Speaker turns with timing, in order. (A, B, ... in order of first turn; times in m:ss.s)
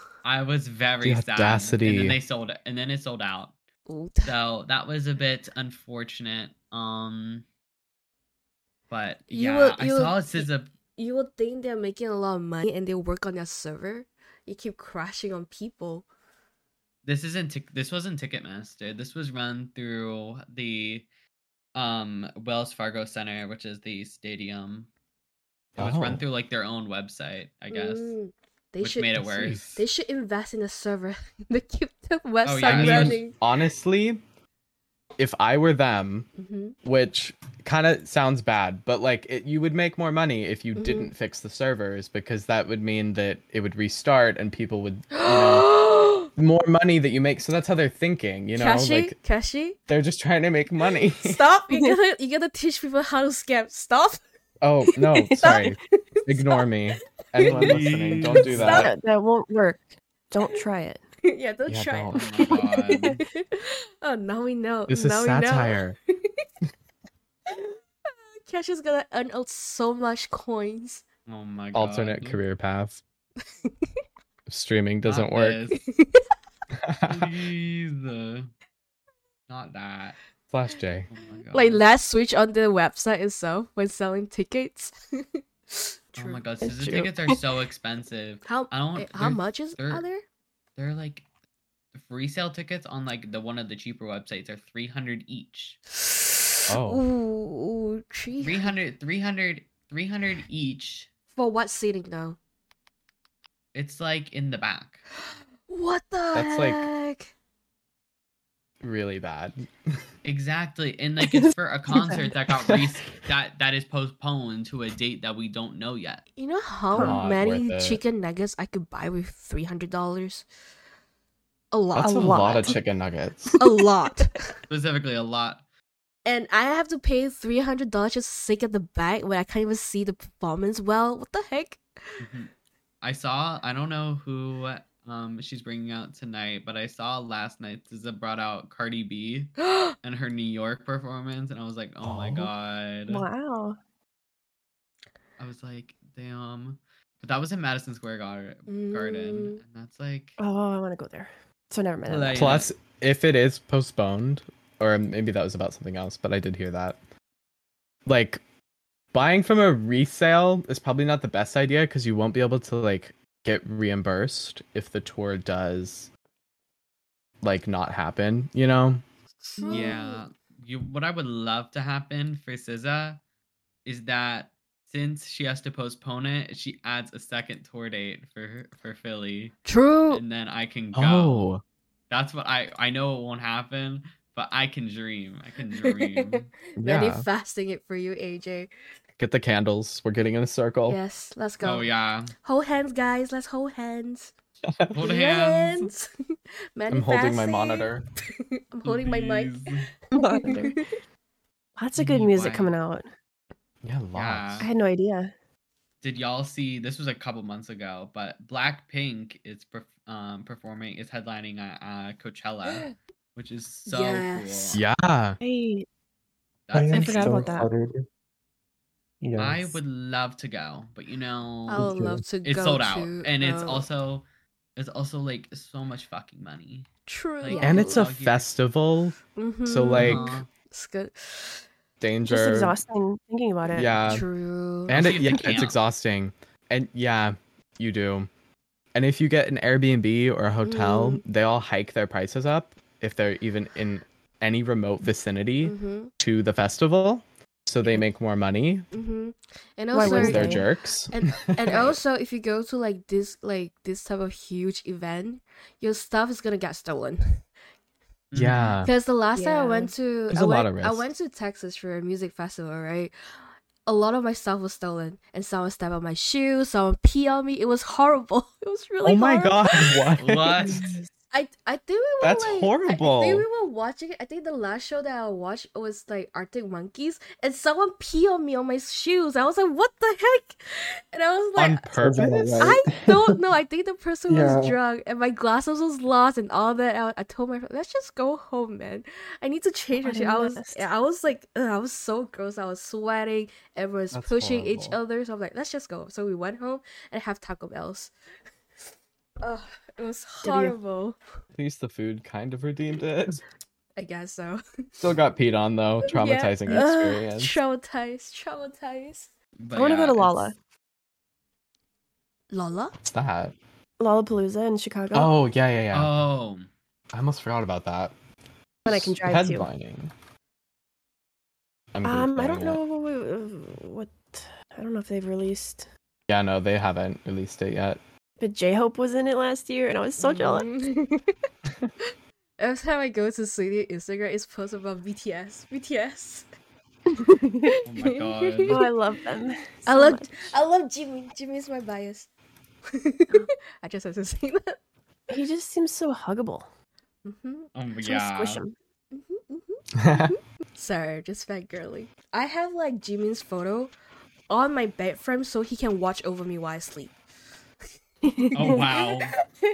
0:00.2-0:03.6 A
0:01.0-0:02.2 B
0:03.9-0:04.4 C
0:04.2-0:07.4 A
0:08.9-0:10.7 A
0:09.3-0:16.0 C
0:17.0-0:21.1 A
0:21.8-0:24.9 A
0:25.8-0:26.2 B
0:25.8-0:28.2 A
0:27.7-0:33.4 C
0:28.8-0:29.6 A
0:29.4-0:29.8 B
0:32.4-0:33.3 A
0:32.6-0:34.2 B
0:35.2-0:36.3 B
0:36.4-0:36.8 C
0:36.8-0:45.7 B
0:40.8-0:41.1 C
0:45.1-0:46.3 C
0:46.4-0:49.2 B
0:48.6-0:49.8 C
0:49.9-0:51.4 B
0:51.2-0:54.2 C
0:54.6-0:58.9 B
0:55.2-0:55.6 D
0:55.4-0:55.7 C
0:57.4-0:57.8 C
0:57.4-0:58.9 A
0:58.4-0:58.9 C
0:58.6-1:01.0 D
1:01.2-1:06.4 C
1:01.7-1:02.2 B
1:02.1-1:03.2 A
1:02.6-1:03.2 D
1:04.9-1:06.0 B
1:07.5-1:11.0 C
1:11.3-1:12.4 A
1:11.7-1:13.0 B
1:14.5-1:15.6 B
1:15.0-1:15.8 A
1:15.7-1:16.2 C
1:16.8-1:17.3 B
1:17.0-1:18.5 A
1:19.5-1:20.2 A
1:20.5-1:21.1 B
1:21.1-1:21.8 A
1:21.5-1:26.4 C
1:26.2-1:30.0 A
1:26.6-1:27.4 D
1:28.4-1:30.2 C
1:30.8-1:31.2 A
1:32.0-1:35.8 A
1:36.0-1:38.8 C
1:36.7-1:37.0 B
1:38.4-1:41.1 A
1:41.3-1:42.4 C
1:43.7-1:45.0 A
1:45.7-1:47.3 C
1:46.3-1:46.9 B
1:48.8-1:50.0 B
1:50.2-1:56.2 A
1:51.2-1:52.3 D
1:52.6-1:52.9 B
1:56.4-2:00.5 C
1:56.9-1:58.0 B
1:56.9-1:57.2 D
2:01.7-2:02.8 C
2:01.9-2:03.6 B
2:02.1-2:02.8 D
2:03.6-2:04.6 C
2:04.7-2:05.6 A
2:06.3-2:12.2 C
2:12.2-2:12.5 A
2:13.0-2:23.3 A
2:22.0-2:22.5 B
2:23.1-2:23.8 D
2:25.4-2:30.4 A
2:28.7-2:29.6 C
2:30.4-2:32.6 D
2:32.0-2:32.7 A
2:32.3-2:37.0 B
2:38.1-2:38.4 B
2:39.1-2:46.1 B
2:47.4-2:49.0 B
2:49.4-2:50.2 C
2:49.6-2:50.0 D
2:49.7-2:53.2 A
2:53.9-2:59.6 A
2:59.7-3:00.2 C
3:00.1-3:01.5 A
3:00.9-3:01.6 B
3:02.1-3:06.5 A
3:05.8-3:08.7 C
3:06.8-3:07.3 B
3:09.2-3:11.0 B
3:10.9-3:11.9 C
3:11.6-3:12.3 A
3:12.4-3:14.3 C
3:14.9-3:15.9 A
3:15.0-3:19.6 C
3:16.9-3:18.1 B
3:18.8-3:19.9 A
3:20.1-3:20.8 D
3:20.2-3:20.6 C
3:21.8-3:23.1 D
3:22.0-3:22.7 A
3:23.8-3:24.7 B
3:24.2-3:24.7 A
3:24.6-3:25.3 D
3:26.0-3:34.8 A
3:33.9-3:34.8 C
3:34.7-3:35.4 B
3:35.4-3:35.9 D
3:36.7-3:37.6 A
3:36.7-3:38.1 E
3:36.9-3:37.7 D
3:37.3-3:37.6 C
3:39.2-3:39.8 E
3:39.4-3:41.9 A
3:41.7-3:43.9 C
3:41.8-3:42.3 E
3:42.4-3:44.2 A
3:44.8-3:46.9 A
3:47.1-3:48.0 C
3:47.4-3:48.5 A
3:47.6-3:50.4 B
3:49.4-3:51.6 C
3:50.0-3:50.5 A
3:52.0-3:52.8 B
3:52.3-3:53.9 D
3:53.7-3:54.3 B
3:54.0-3:55.0 C
3:54.9-3:58.3 B
3:54.9-3:55.8 A
3:59.0-4:08.9 B
4:00.6-4:01.2 C
4:05.6-4:06.1 C
4:08.9-4:17.4 C
4:09.9-4:10.7 D
4:10.0-4:12.0 B
4:18.3-4:18.8 A
4:18.4-4:18.9 B
4:18.8-4:23.1 C
4:19.4-4:19.9 D
4:20.3-4:21.1 B
4:23.9-4:30.1 C
4:29.0-4:30.9 B
4:30.2-4:30.8 A
4:30.6-4:31.1 D
4:31.3-4:42.0 C
4:32.2-4:33.5 B
4:41.6-4:42.8 B
4:42.0-4:43.4 E
4:42.6-4:58.1 C
4:44.3-4:44.8 E
4:50.0-4:50.9 D
4:54.1-4:55.0 B
4:59.4-5:01.2 C
5:00.4-5:00.8 D
5:01.5-5:03.4 B
5:04.0-5:04.6 C
5:05.0-5:07.6 B
5:06.0-5:09.3 C
5:09.6-5:10.5 A
5:09.8-5:10.6 D
5:12.5-5:13.0 C
5:13.0-5:13.6 B
5:14.0-5:15.3 D
5:15.1-5:16.1 B
5:15.9-5:16.7 A
5:17.1-5:18.1 B
5:18.8-5:19.7 D
5:18.9-5:20.1 B
5:21.9-5:22.8 B
5:22.0-5:25.9 D
5:26.3-5:28.0 B
5:28.4-5:30.7 D
5:30.2-5:31.4 C
5:32.6-5:36.4 C
5:37.1-5:37.8 D
5:37.7-5:38.9 C
5:37.9-5:38.9 A
5:38.7-5:40.6 D
5:39.8-5:42.3 C
5:42.9-5:44.8 C
5:45.3-5:46.7 D
5:47.2-5:47.7 C
5:47.8-5:48.6 A
5:48.0-5:48.8 D
5:49.1-5:53.9 C
5:50.0-5:50.4 B
5:54.5-5:57.2 C
5:58.2-5:58.9 D
5:58.6-5:59.3 A
5:58.6-5:59.2 C